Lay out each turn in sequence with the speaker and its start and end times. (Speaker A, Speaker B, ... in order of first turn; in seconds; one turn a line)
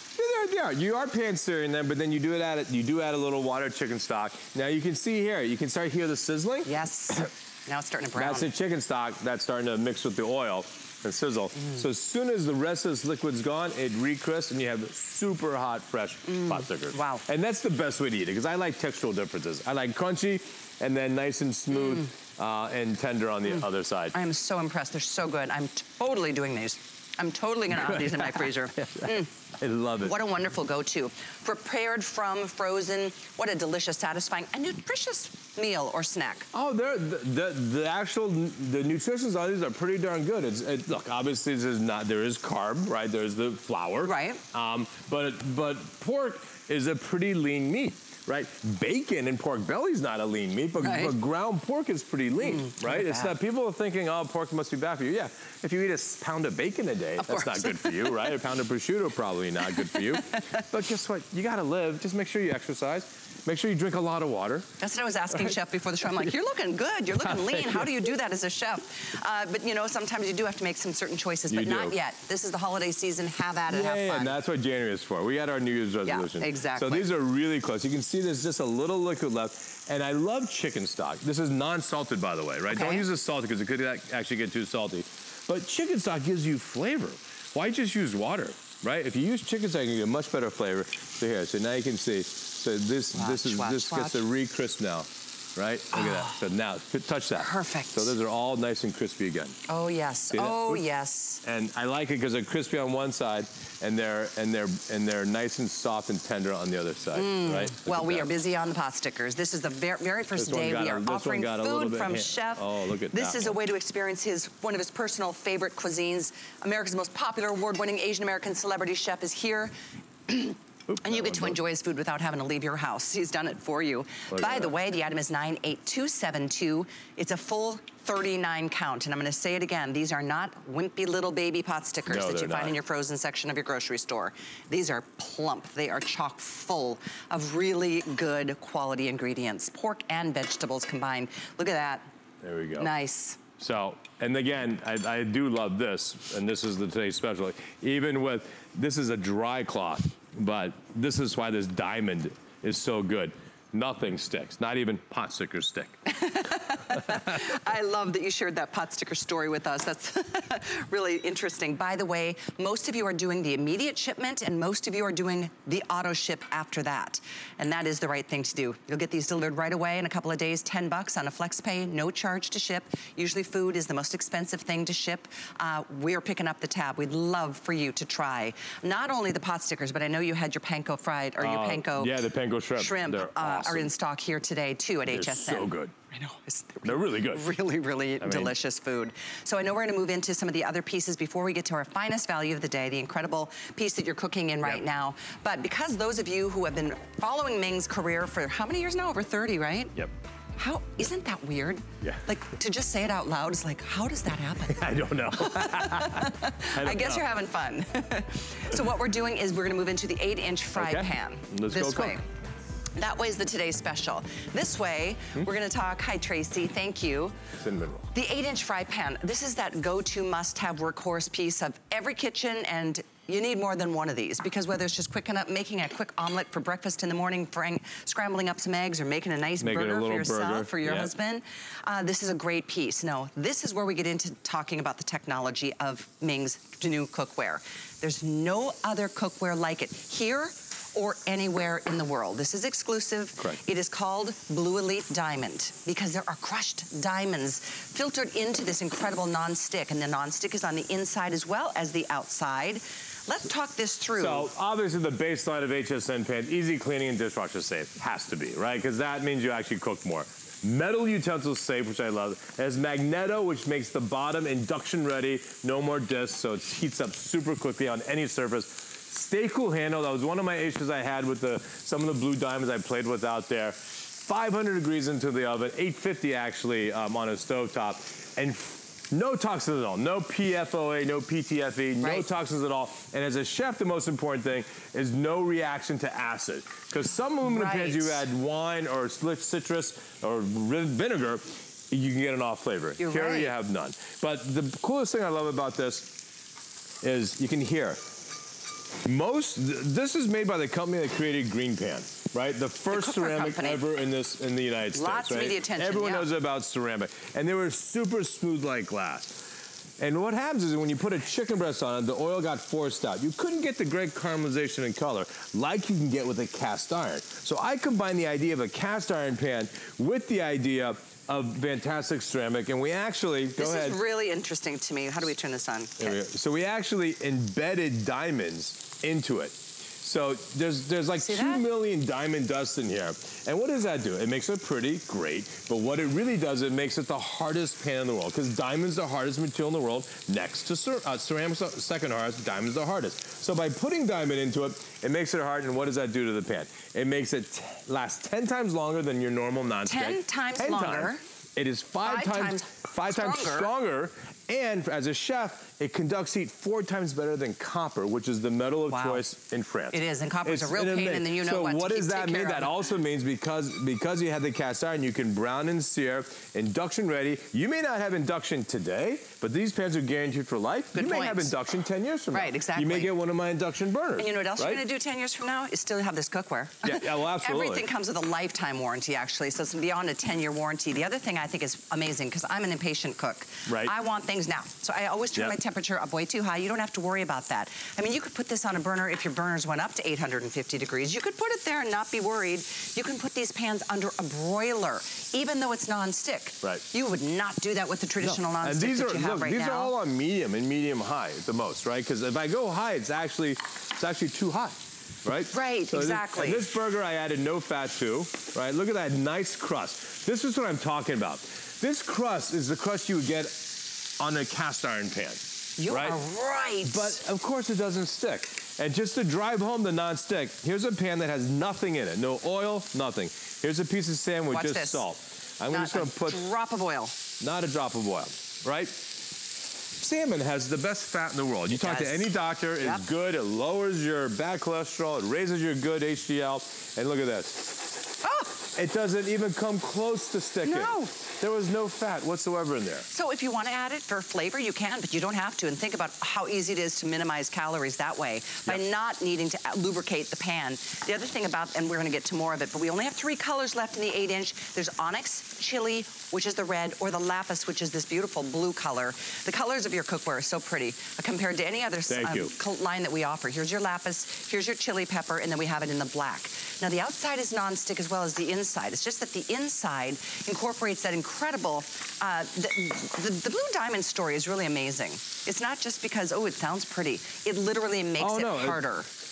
Speaker A: 0.2-7.3
Speaker B: 6.6-8.5
Speaker A: 8.2-24.1
Speaker B: 11.6-11.8
Speaker B: 16.3-17.2
Speaker B: 24.1-29.3
Speaker A: 27.7-30.2
Speaker B: 30.0-36.5
Speaker A: 36.5-64.7
Speaker B: 44.0-44.4
Speaker B: 50.8-51.1
Speaker B: 52.4-53.3
Speaker B: 57.2-58.4
Speaker B: 59.9-60.7
Speaker B: 64.8-74.4
Speaker A: 67.2-68.0
Speaker A: 71.5-72.0
Speaker A: 73.7-99.6
Speaker B: 76.0-77.1
Speaker B: 82.7-83.0
Speaker B: 93.1-94.2
Speaker B: 95.9-96.4
Speaker B: 97.3-98.1
Speaker B: 99.7-101.4
Speaker A: 100.3-100.8
Speaker A: 101.4-108.3
Speaker B: 107.1-119.7
Speaker A: 110.3-113.6
Speaker B: 120.3-142.1
Speaker A: 120.9-121.6
Speaker A: 124.3-124.7
Speaker A: 132.1-132.8
Speaker A: 142.4-142.9
Speaker B: 142.8-143.4
Speaker A: 143.6-156.0
Speaker B: 156.1-182.2
Speaker A: 181.4-183.9
Speaker B: 182.8-199.9
Speaker A: 185.1-185.9
Speaker A: 186.8-187.5
Speaker A: 188.2-188.5
Speaker B: 200.6-212.2
Speaker A: 204.7-207.3
Speaker A: 210.7-212.2
Speaker B: 213.0-217.3
Speaker A: 217.6-218.1
Speaker B: 218.1-254.5
Speaker A: 229.6-231.1
Speaker A: 254.2-296.2
Speaker B: 282.0-282.3
Speaker B: 287.4-288.2
Speaker B: 293.0-293.5
Speaker A: 297.0-298.0
Speaker A: 299.0-324.0
Speaker B: 302.9-303.8
Speaker B: 304.9-306.3
Speaker B: 323.6-326.2
Speaker A: 326.0-374.8
Speaker B: 331.2-331.6
Speaker B: 349.9-351.2
Speaker B: 352.0-353.7
Speaker B: 358.9-359.2
Speaker B: 359.9-362.7
Speaker B: 370.9-371.5
Speaker B: 372.3-373.1
Speaker B: 374.2-399.9
Speaker A: 376.8-377.9
Speaker A: 383.7-383.9
Speaker A: 398.2-416.2
Speaker B: 405.5-406.6
Speaker B: 415.8-417.2
Speaker A: 416.8-426.4
Speaker B: 424.5-425.0
Speaker B: 425.7-427.2
Speaker A: 427.4-429.3
Speaker A: 430.0-438.0
Speaker B: 431.7-433.1
Speaker B: 438.2-438.6
Speaker A: 438.7-443.1
Speaker B: 440.6-441.1
Speaker B: 443.1-479.1
Speaker A: 462.1-462.5
Speaker A: 478.2-478.8